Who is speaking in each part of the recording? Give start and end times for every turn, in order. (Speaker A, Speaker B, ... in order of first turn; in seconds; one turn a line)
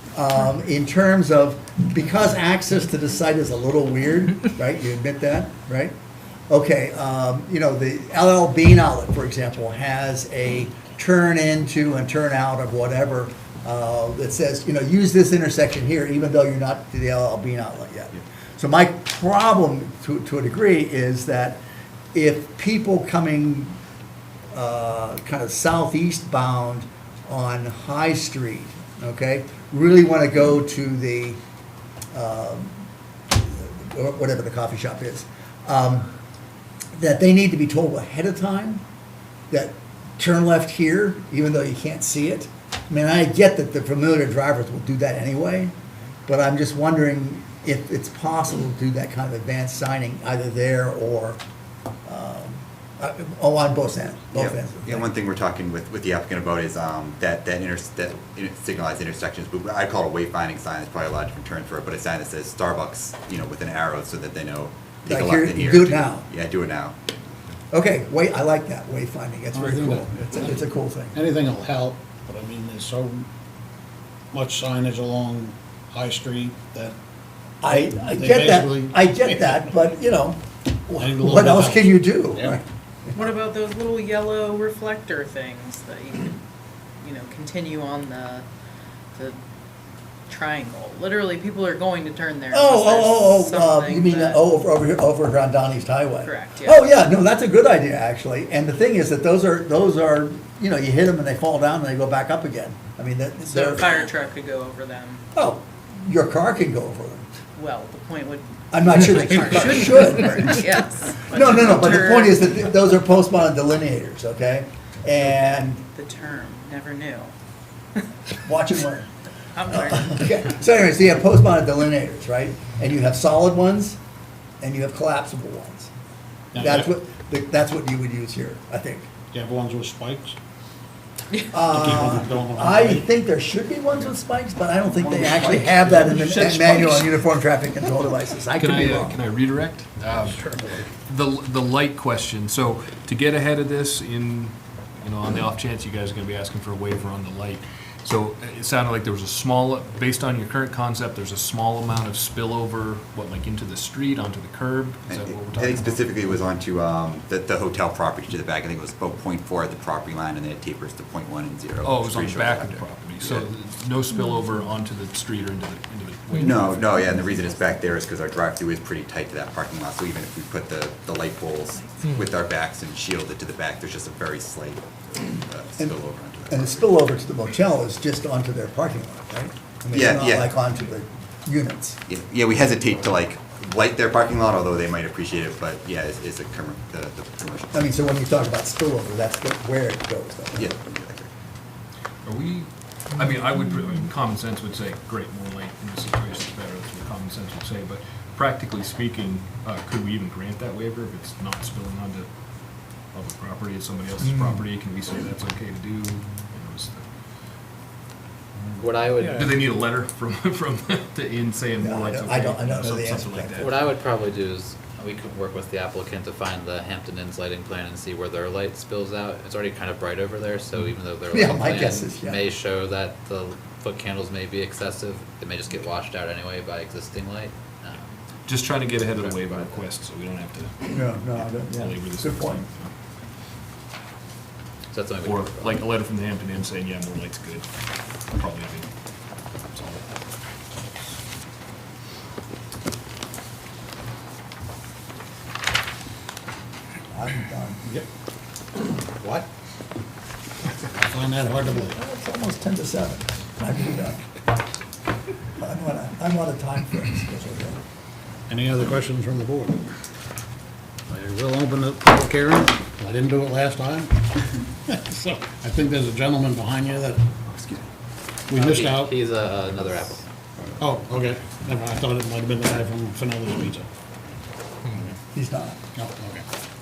Speaker A: 0.1-5.9
Speaker A: 6.5-21.6
Speaker A: 22.1-23.8
Speaker A: 24.5-31.4
Speaker A: 32.1-32.7
Speaker A: 33.3-36.1
Speaker A: 37.0-38.8
Speaker A: 39.5-45.7
Speaker A: 46.3-51.4
Speaker A: 52.0-55.1
Speaker B: 54.3-67.0
Speaker A: 65.1-66.3
Speaker A: 67.7-71.2
Speaker C: 69.5-73.3
Speaker C: 74.3-77.0
Speaker A: 77.6-82.6
Speaker C: 77.7-79.7
Speaker C: 81.0-82.6
Speaker D: 83.1-86.4
Speaker D: 87.0-88.5
Speaker D: 90.3-94.4
Speaker A: 92.5-104.0
Speaker D: 96.2-96.8
Speaker D: 103.4-105.2
Speaker A: 105.3-107.3
Speaker D: 107.6-112.5
Speaker A: 108.7-110.7
Speaker A: 111.3-115.8
Speaker D: 115.3-117.3
Speaker A: 118.4-119.1
Speaker D: 119.5-120.4
Speaker A: 119.7-124.0
Speaker A: 124.6-125.9
Speaker C: 126.5-126.9
Speaker A: 126.6-129.1
Speaker C: 129.3-130.4
Speaker A: 131.5-139.2
Speaker C: 131.7-133.1
Speaker C: 135.0-136.8
Speaker E: 136.8-137.1
Speaker E: 138.6-140.4
Speaker C: 140.1-140.9
Speaker E: 141.1-156.1
Speaker B: 155.1-163.5
Speaker E: 161.8-166.5
Speaker B: 166.4-177.0
Speaker A: 176.5-182.0
Speaker B: 179.9-180.5
Speaker B: 182.1-187.9
Speaker A: 187.7-190.7
Speaker B: 190.6-191.3
Speaker E: 192.2-202.3
Speaker E: 203.1-207.0
Speaker A: 204.2-204.6
Speaker F: 208.8-209.4
Speaker C: 209.2-209.5
Speaker E: 209.4-213.8
Speaker A: 211.8-213.7
Speaker F: 213.6-228.2
Speaker A: 221.3-222.4
Speaker E: 228.5-232.9
Speaker F: 229.2-229.8
Speaker A: 230.9-232.7
Speaker F: 234.9-235.8
Speaker E: 235.2-237.7
Speaker E: 238.3-238.9
Speaker E: 239.7-240.2
Speaker A: 247.1-247.8
Speaker C: 249.1-249.5
Speaker C: 250.9-252.0
Speaker A: 251.6-254.2
Speaker A: 255.6-257.8
Speaker C: 258.5-259.9
Speaker C: 261.1-267.3
Speaker C: 268.5-269.1
Speaker F: 268.6-270.2
Speaker C: 270.8-273.9
Speaker A: 275.3-275.8
Speaker C: 275.9-276.4